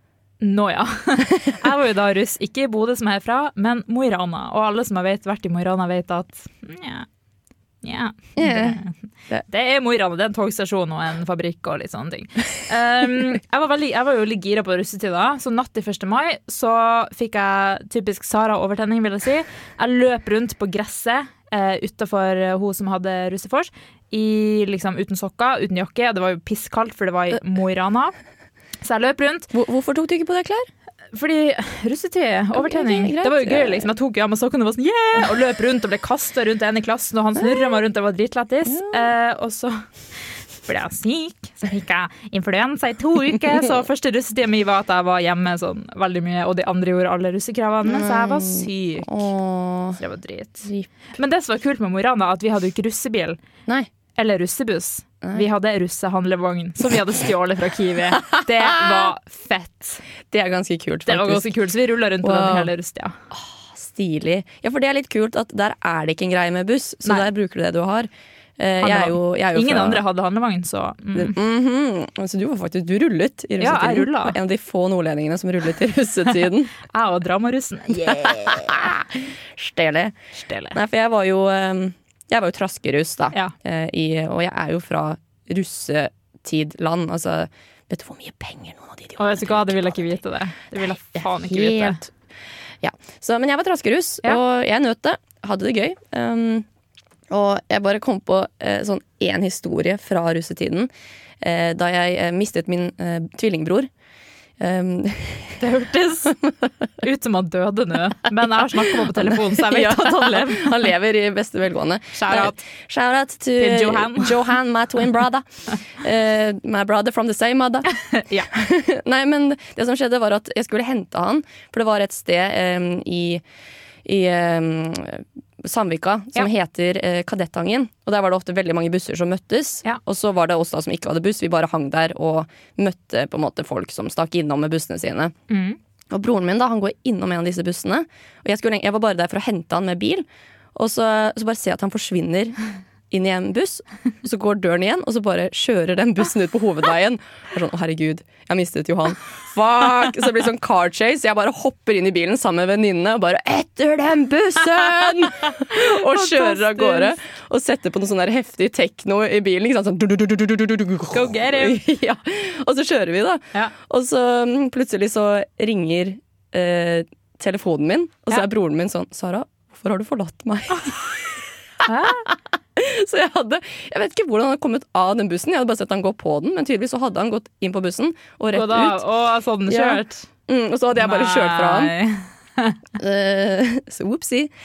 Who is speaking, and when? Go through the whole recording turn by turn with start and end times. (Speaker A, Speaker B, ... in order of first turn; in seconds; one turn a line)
Speaker A: 0.4-7.1
Speaker A: 7.8-9.0
Speaker B: 8.4-9.4
Speaker A: 9.5-28.1
Speaker A: 28.8-29.5
Speaker B: 29.5-30.7
Speaker A: 31.1-39.8
Speaker B: 32.5-33.9
Speaker B: 37.4-37.8
Speaker B: 38.7-39.1
Speaker A: 40.7-49.2
Speaker B: 47.8-50.0
Speaker A: 50.0-53.4
Speaker A: 54.2-60.0
Speaker B: 58.2-59.1
Speaker B: 60.3-61.5
Speaker A: 61.1-63.2
Speaker B: 62.2-62.7
Speaker B: 63.3-70.0
Speaker A: 68.8-71.4
Speaker B: 71.2-76.7
Speaker A: 73.6-74.4
Speaker A: 76.9-78.8
Speaker B: 78.0-80.2
Speaker A: 80.3-80.8
Speaker B: 80.7-90.2
Speaker A: 89.2-92.0
Speaker B: 91.2-92.1
Speaker B: 92.8-96.7
Speaker B: 97.3-100.9
Speaker B: 101.4-103.9
Speaker B: 104.6-105.6
Speaker A: 105.6-106.4
Speaker A: 107.0-110.8
Speaker B: 109.4-118.0
Speaker A: 112.1-112.6
Speaker A: 113.6-114.5
Speaker A: 117.9-118.5
Speaker B: 118.5-123.4
Speaker B: 124.0-135.3
Speaker A: 135.5-135.8
Speaker B: 136.1-142.6
Speaker B: 143.1-171.4
Speaker A: 155.4-157.2
Speaker A: 161.1-161.8
Speaker A: 171.8-172.3
Speaker B: 172.3-179.0
Speaker A: 178.5-180.3
Speaker B: 179.7-181.9
Speaker A: 180.9-182.8
Speaker B: 183.0-184.5